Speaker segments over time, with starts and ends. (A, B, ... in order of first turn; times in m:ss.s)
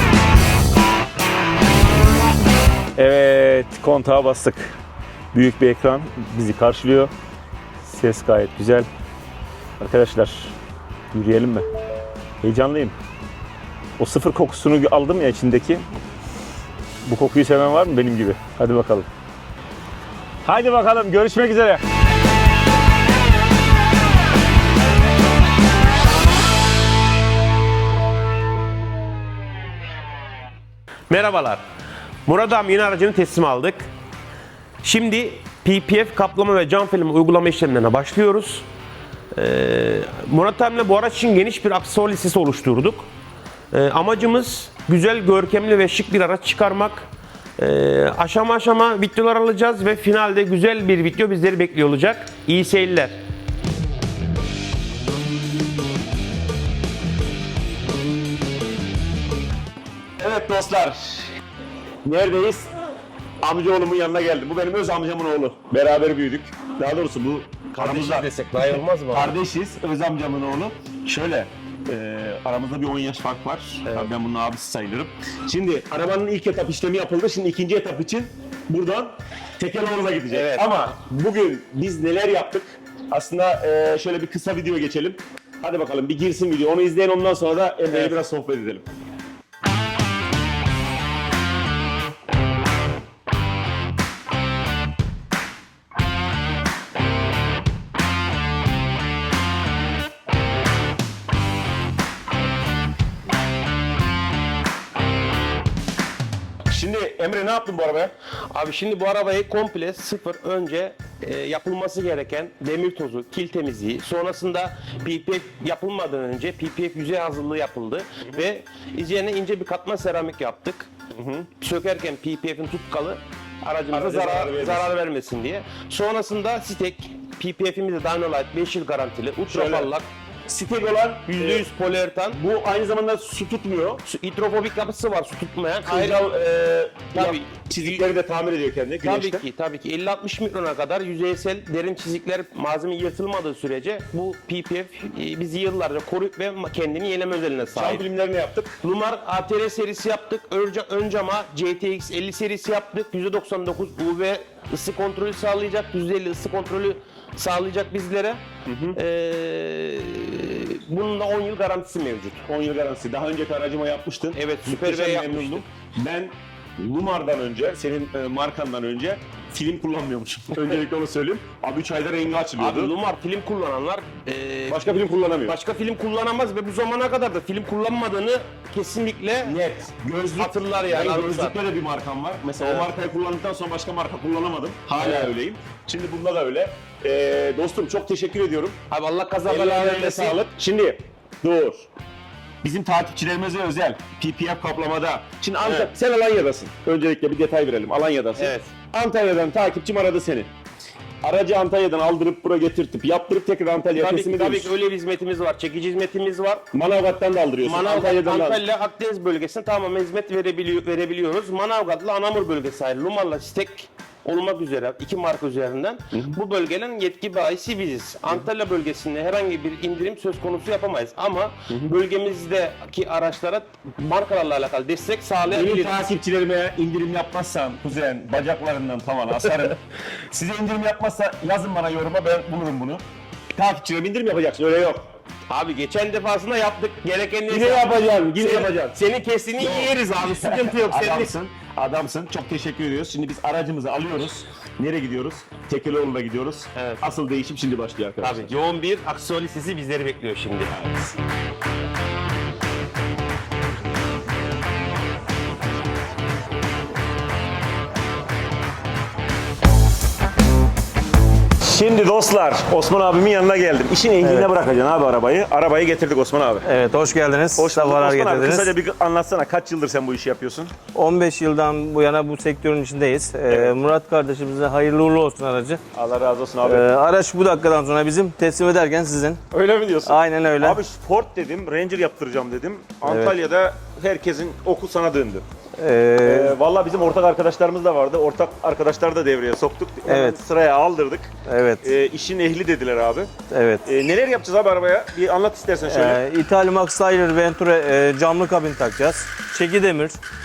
0:03.0-0:04.8 A
0:05.3-0:07.1 A
0:07.8-0:08.9 A
0:09.8-0:10.5 A
0:11.1-0:11.7 A
0:12.4-0:12.9 A
0:14.0-0:15.8 A
0:17.0-0:19.1 A
0:20.4-0:21.8 A
0:31.1-0:31.7 B
0:32.3-0:33.9 B
0:34.8-0:38.7 B
0:39.4-0:43.1 B
0:43.7-0:53.2 B
1:00.2-1:01.3 A
1:02.0-1:02.7 A
1:03.4-1:08.3 A
1:07.7-1:09.4 B
1:09.1-1:28.8 A
1:20.3-1:20.8 B
1:27.9-1:28.1 B
1:46.7-1:48.1 A
1:48.5-2:00.9 B
2:01.2-2:01.5 A
2:01.6-2:10.1 B
2:03.9-2:04.9 A
2:09.5-2:09.9 A
2:10.5-2:11.7 A
2:11.2-2:12.4 B
2:12.3-2:14.0 A
2:14.0-2:16.2 B
2:15.8-2:19.4 A
2:17.1-2:18.0 B
2:19.0-2:28.0 B
2:27.8-2:28.8 A
2:28.8-2:38.4 B
2:38.7-2:39.0 A
2:38.9-2:42.4 B
2:42.4-2:52.9 A
2:44.3-2:45.6 B
2:52.6-2:59.6 B
2:54.7-2:55.6 A
2:59.4-3:08.8 A
3:00.4-3:01.6 B
3:02.6-3:02.9 B
3:05.0-3:05.3 B
3:08.9-3:10.4 B
3:09.4-3:11.9 A
3:12.6-3:20.5 A
3:15.6-3:15.9 B
3:18.4-3:18.7 B
3:21.2-3:24.7 A
3:23.9-3:26.6 B
3:26.7-3:28.6 A
3:27.6-3:46.0 B
3:45.5-3:49.8 A
3:50.3-3:53.0 A
3:53.6-3:55.0 A
3:55.5-4:01.3 B
3:57.5-3:59.0 A
3:59.6-4:08.5 A
4:06.8-4:07.0 B
4:08.2-4:10.7 B
4:10.7-4:11.1 A
4:21.6-4:26.7 A
4:24.2-4:24.5 C
4:26.6-4:28.7 C
4:27.6-4:30.7 A
4:30.9-4:35.8 C
4:33.5-4:33.8 A
4:35.9-4:36.9 A
4:36.6-4:39.4 C
4:39.5-4:45.4 A
4:40.1-4:40.8 C
4:43.1-4:43.4 C
4:45.8-4:46.6 C
4:46.2-4:51.3 A
4:50.1-4:50.4 C
4:51.4-4:51.8 C
4:51.8-4:53.3 A
4:53.5-4:53.9 C
4:53.8-4:56.2 A
4:55.9-5:00.2 C